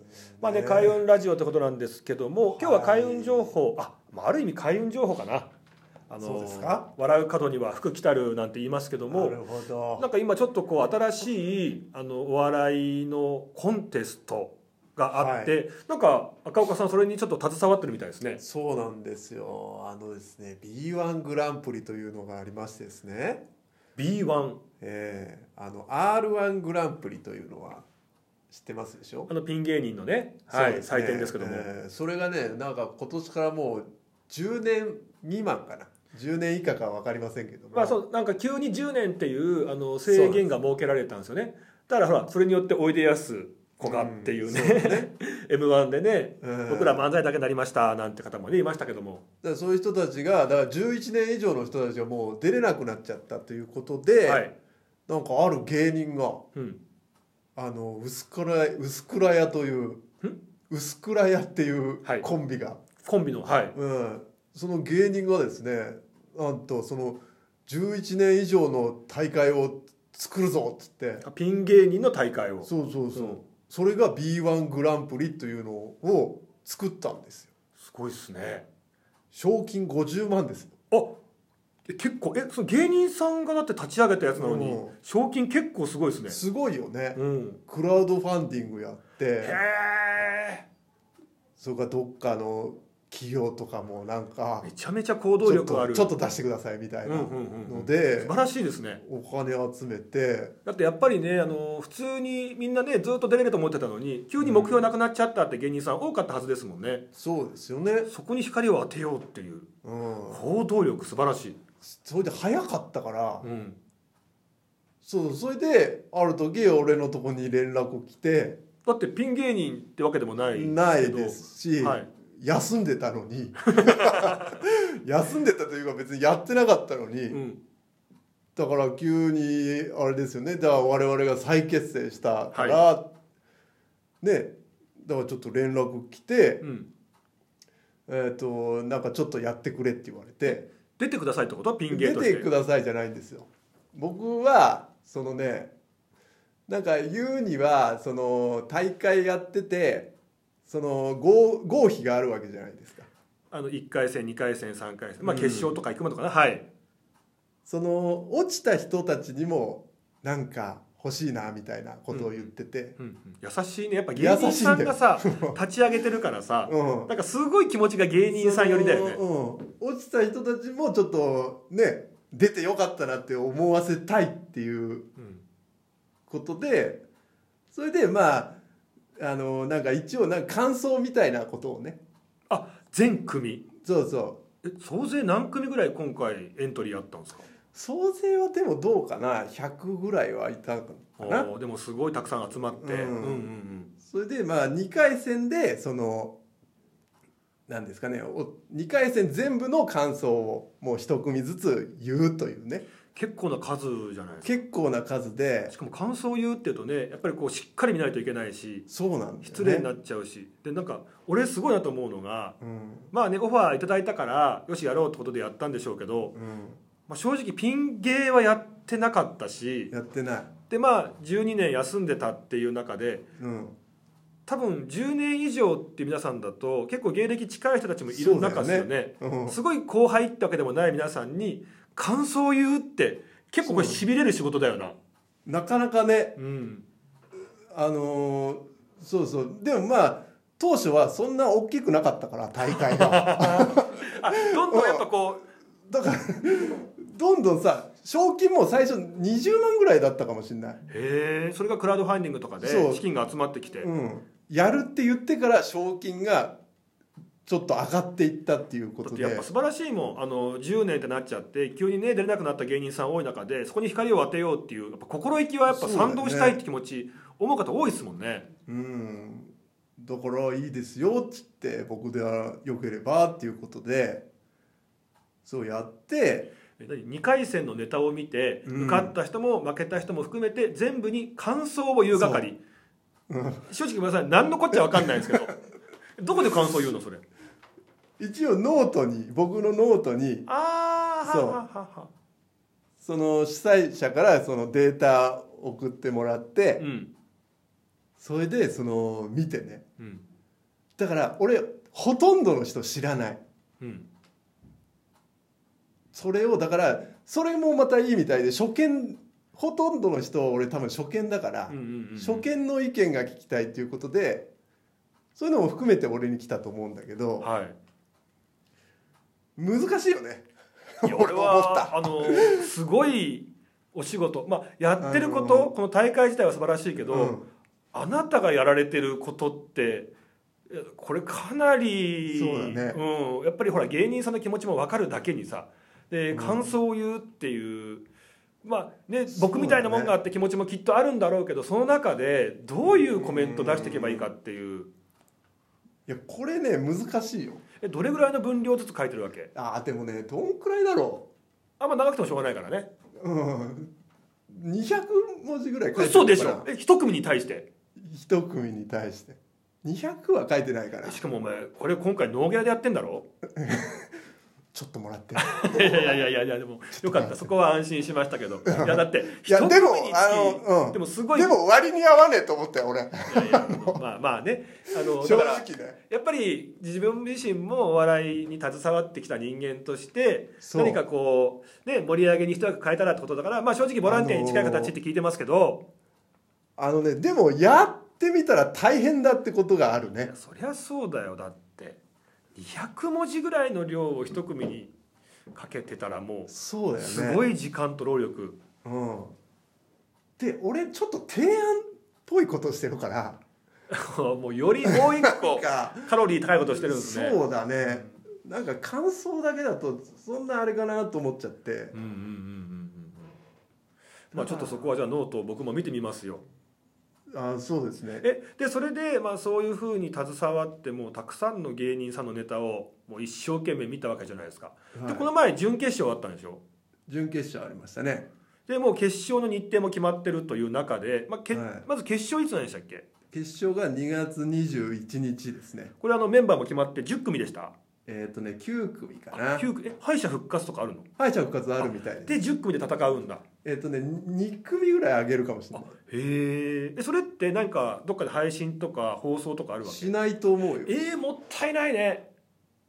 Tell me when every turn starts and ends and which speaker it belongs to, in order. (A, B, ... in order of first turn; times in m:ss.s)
0:00.3-0:01.0 A
0:00.4-0:05.5 B
0:02.6-0:03.5 A
0:06.1-0:09.4 B
0:06.2-0:06.9 A
0:09.1-0:10.1 A
0:10.0-0:18.4 B
0:15.1-0:15.5 A
0:18.4-0:23.4 A
0:24.0-0:24.6 B
0:24.8-0:27.8 A
0:28.5-0:29.3 A
0:29.3-0:31.7 B
0:30.5-0:38.0 A
0:37.7-0:49.2 B
0:40.1-0:40.4 A
0:43.8-0:45.1 A
0:46.4-0:47.0 A
0:49.4-0:54.4 A
0:54.2-0:54.5 B
0:55.1-0:56.4 A
0:56.5-0:56.8 B
0:57.6-1:00.0 A
1:00.7-1:02.8 A
1:03.0-1:03.7 B
1:03.7-1:11.2 A
1:11.2-1:13.4 B
1:12.6-1:17.5 A
1:17.8-1:18.6 B
1:19.3-1:20.7 A
1:20.9-1:21.2 B
1:21.9-1:26.4 B
1:24.4-1:24.9 A
1:26.3-1:29.6 A
1:27.1-1:27.6 B
1:29.4-1:30.6 B
1:31.6-1:34.7 A
1:34.6-1:36.1 B
1:35.4-1:38.3 A
1:37.0-1:39.0 B
1:39.0-1:40.5 A
1:40.6-1:47.0 B
1:44.4-1:44.8 A
1:47.1-1:48.1 A
1:48.1-1:49.7 B
1:49.8-1:50.4 A
1:50.3-1:51.6 B
1:51.8-1:53.5 A
1:53.4-1:53.8 B
1:55.0-1:58.6 A
1:58.8-2:02.1 B
2:00.5-2:07.4 A
2:03.8-2:04.5 B
2:07.3-2:07.6 B
2:08.6-2:13.1 A
2:12.5-2:12.8 B
2:14.2-2:16.6 A
2:16.6-2:16.9 B
2:18.1-2:20.7 A
2:20.5-2:22.4 B
2:21.9-2:25.7 A
2:26.7-2:30.1 A
2:30.7-2:33.1 A
2:33.5-2:36.6 B
2:35.2-2:35.7 A
2:37.6-2:43.0 A
2:42.1-2:49.2 B
2:44.2-2:45.6 A
2:46.7-2:47.1 A
2:48.3-2:55.1 A
2:55.2-2:55.4 B
2:56.3-2:57.0 A
2:57.7-2:58.6 A
2:59.2-3:02.0 A
3:02.5-3:03.6 B
3:03.8-3:04.4 A
3:04.6-3:07.5 B
3:07.7-3:11.5 A
3:11.2-3:13.9 B
3:12.8-3:13.5 A
3:14.0-3:16.4 A
3:17.7-3:22.8 A
3:23.1-3:24.5 B
3:24.4-3:25.7 A
3:25.7-3:28.8 B
3:28.9-3:29.9 A
3:29.4-3:32.6 B
3:32.6-3:33.1 A
3:33.1-3:36.3 B
3:36.3-3:36.8 A
3:37.1-3:39.9 B
3:39.9-3:40.5 A
3:40.7-3:43.2 B
3:43.4-3:43.8 A
3:44.5-3:55.0 B
3:48.1-3:49.6 A
3:53.6-3:54.0 A
3:55.4-3:56.4 A
3:56.4-3:56.8 B
3:57.7-4:05.1 A
4:02.8-4:05.4 B
4:05.9-4:10.8 A
4:10.9-4:13.9 B
4:12.6-4:13.0 A
4:13.8-4:16.6 A
4:17.4-4:19.4 A
4:19.0-4:28.5 B
4:25.7-4:26.6 A
4:28.7-4:34.2 A
4:35.4-4:36.5 A
4:36.8-4:42.6 B
4:38.6-4:39.1 A
4:42.1-4:42.4 A
4:43.3-4:43.7 A
4:43.7-4:45.6 B
4:44.7-4:45.5 A
4:46.2-4:47.2 B
4:48.2-4:50.5 A
4:50.5-4:52.1 B
4:51.2-4:51.6 A
4:53.0-4:56.8 A
4:56.8-4:57.1 B
4:58.2-4:59.8 A
5:01.0-5:03.4 A
5:03.8-5:04.1 B
5:06.1-5:14.5 A
5:11.7-5:12.5 B
5:15.4-5:17.5 A
5:17.4-5:17.8 B
5:19.6-5:20.5 A
5:21.0-5:22.7 A
5:21.0-5:27.4 B
5:25.0-5:25.7 A
5:27.0-5:27.5 A
5:27.9-5:30.1 B
5:30.7-5:38.0 B
5:32.3-5:33.0 A
5:36.3-5:36.7 A
5:38.6-5:44.9 B
5:39.3-5:40.1 A
5:42.8-5:44.3 A
5:46.1-5:47.6 A
5:47.8-5:49.5 B
5:49.5-5:51.3 A
5:51.8-5:52.9 B
5:53.2-5:53.9 A
5:54.5-5:56.7 A
5:56.0-5:57.7 B
5:58.0-6:01.2 A
6:01.0-6:03.2 B
6:03.6-6:04.1 A
6:04.7-6:06.2 A
6:05.4-6:11.5 B
6:07.0-6:07.5 A
6:08.6-6:14.0 A
6:13.3-6:25.8 B
6:15.0-6:16.0 A
6:20.6-6:21.0 A
6:24.0-6:24.9 A
6:26.8-6:30.3 A
6:30.1-6:32.0 B
6:32.5-6:34.9 B
6:35.5-6:38.6 B
6:36.5-6:37.4 A
6:38.8-6:39.3 A
6:40.4-6:43.4 A
6:43.9-6:48.2 B
6:44.8-6:46.1 A
6:46.7-6:51.9 A
6:51.9-6:53.3 B
6:54.3-6:54.9 A
6:54.3-6:56.4 B
6:57.3-6:58.2 A
6:58.2-7:06.6 B
7:04.9-7:05.3 A
7:07.1-7:08.3 A
7:08.7-7:13.1 B
7:11.5-7:11.9 A
7:13.3-7:15.9 A
7:16.0-7:17.7 B
7:18.0-7:19.7 A
7:19.3-7:21.0 B
7:21.2-7:22.4 A
7:21.8-7:23.4 B
7:23.6-7:25.9 A
7:25.7-7:30.1 B
7:29.8-7:31.0 A
7:30.8-7:32.3 B